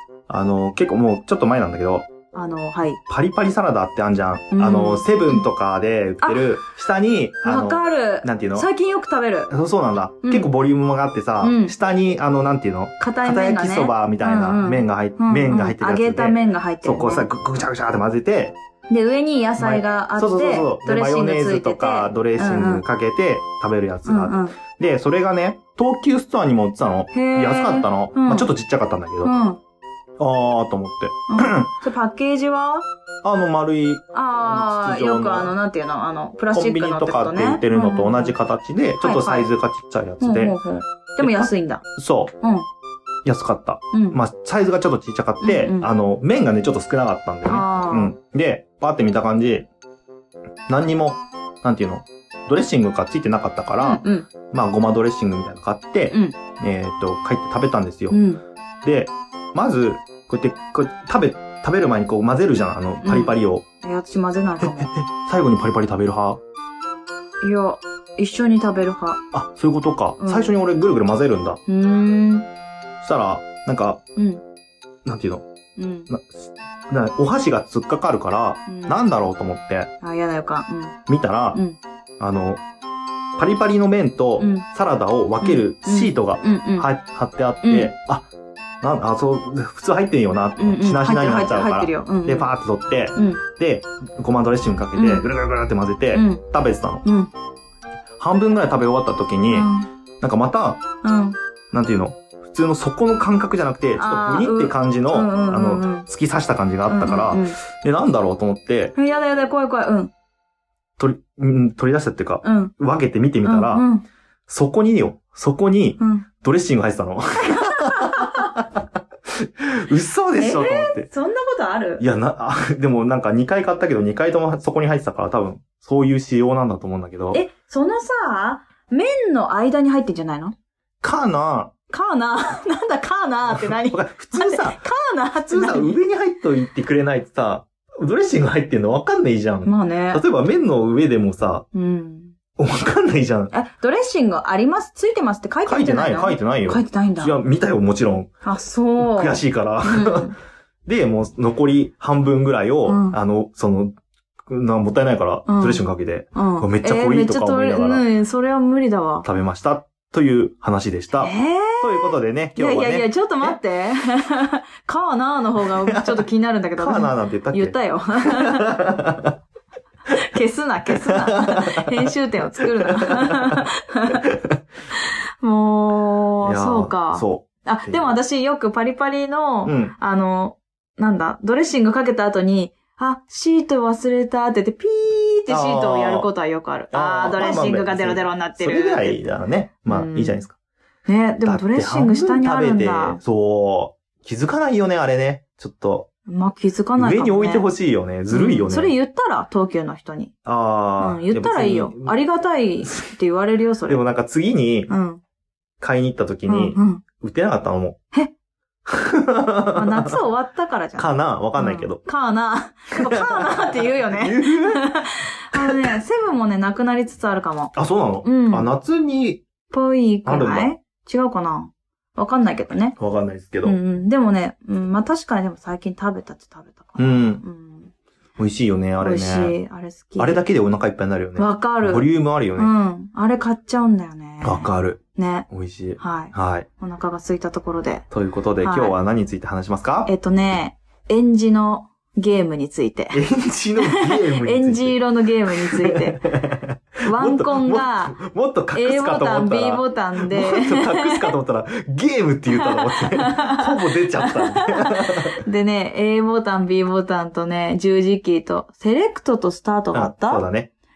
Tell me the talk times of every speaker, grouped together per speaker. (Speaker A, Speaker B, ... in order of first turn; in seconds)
Speaker A: 0.3-2.1, 3.1-8.7, 9.5-18.6, 19.6-29.3, 30.2-31.7, 33.2-35.5, 36.5-40.6, 41.2-42.3, 43.2-49.7, 50.7-58.2, 58.8-63.6, 64.6-66.4, 69.3-71.6, 73.0-74.0, 75.0-75.5, 76.1-79.9, 81.1-81.6, 82.2-82.6, 83.4-88.3, 88.8-97.0, 98.2-100.8, 101.7-108.9, 111.0-113.9, 114.5-118.8, 119.4-121.1, 122.0-127.4, 131.0-131.7, 133.5-134.8, 135.5-141.7, 142.6-143.5, 145.7-148.3, 149.0-150.3, 150.9-153.9, 154.5-158.1, 159.2-163.6, 165.9-166.2, 166.8-169.4, 170.9-173.6, 174.2-174.6, 176.4-178.2, 179.7-180.0, 185.5-186.3, 186.9-190.5, 191.4-196.1, 197.0-198.9, 200.4-202.2, 203.9-204.9, 205.8-208.0, 208.9-210.2, 211.0-212.0, 213.0-214.9, 215.5-216.0, 217.8-219.4, 220.3-220.7, 223.0-223.8, 227.0-227.4, 228.4-229.6, 230.2-232.7, 234.4-236.7, 238.1-240.1, 243.1-245.0, 245.5-255.3, 259.9-260.7
Speaker B: 2.3-3.0, 4.5-5.4, 6.2-6.7, 7.4-9.5, 10.2-10.5, 11.4-11.8, 13.0-17.3, 18.9-22.8, 24.1-24.6, 27.1-28.5, 29.2-29.6, 31.3-32.9, 34.1-38.4, 39.0-39.5, 40.2-41.8, 43.9-44.2, 45.4-45.9, 47.5-48.1, 53.8-54.3, 56.1-56.4, 58.1-58.4, 63.0-64.9, 67.4-69.2, 70.2-70.5, 71.7-72.5, 74.2-74.4, 75.8-76.1, 78.7-79.0, 80.0-81.0, 81.5-81.8, 84.4-84.7, 85.4-86.9, 87.6-87.9, 90.6-92.5, 93.2-93.4, 95.0-95.3, 96.1-96.4, 97.0-97.3, 99.5-99.9, 101.0-101.4, 104.0-106.1, 106.9-107.6, 109.0-110.1, 112.4-112.7, 113.4-114.1, 116.0-116.3, 117.5-118.5, 120.4-122.0, 127.3-130.5, 131.9-136.0, 139.7-140.2, 141.7-142.3, 143.5-147.4, 148.4-150.4, 152.8-153.2, 155.5-155.8, 156.3-159.3, 161.1-168.8, 170.3-174.2, 175.4-189.2, 189.9-190.4, 191.1-193.2, 196.3-197.7, 198.3-200.3, 201.0-204.0, 204.9-205.2, 206.5-207.0, 209.7-218.7, 219.7-223.0, 223.6-227.9, 229.0-230.4, 231.4-238.1, 238.6-238.9, 240.1-243.2, 243.8-246.2, 247.1-248.2, 248.7-251.3, 252.5-260.4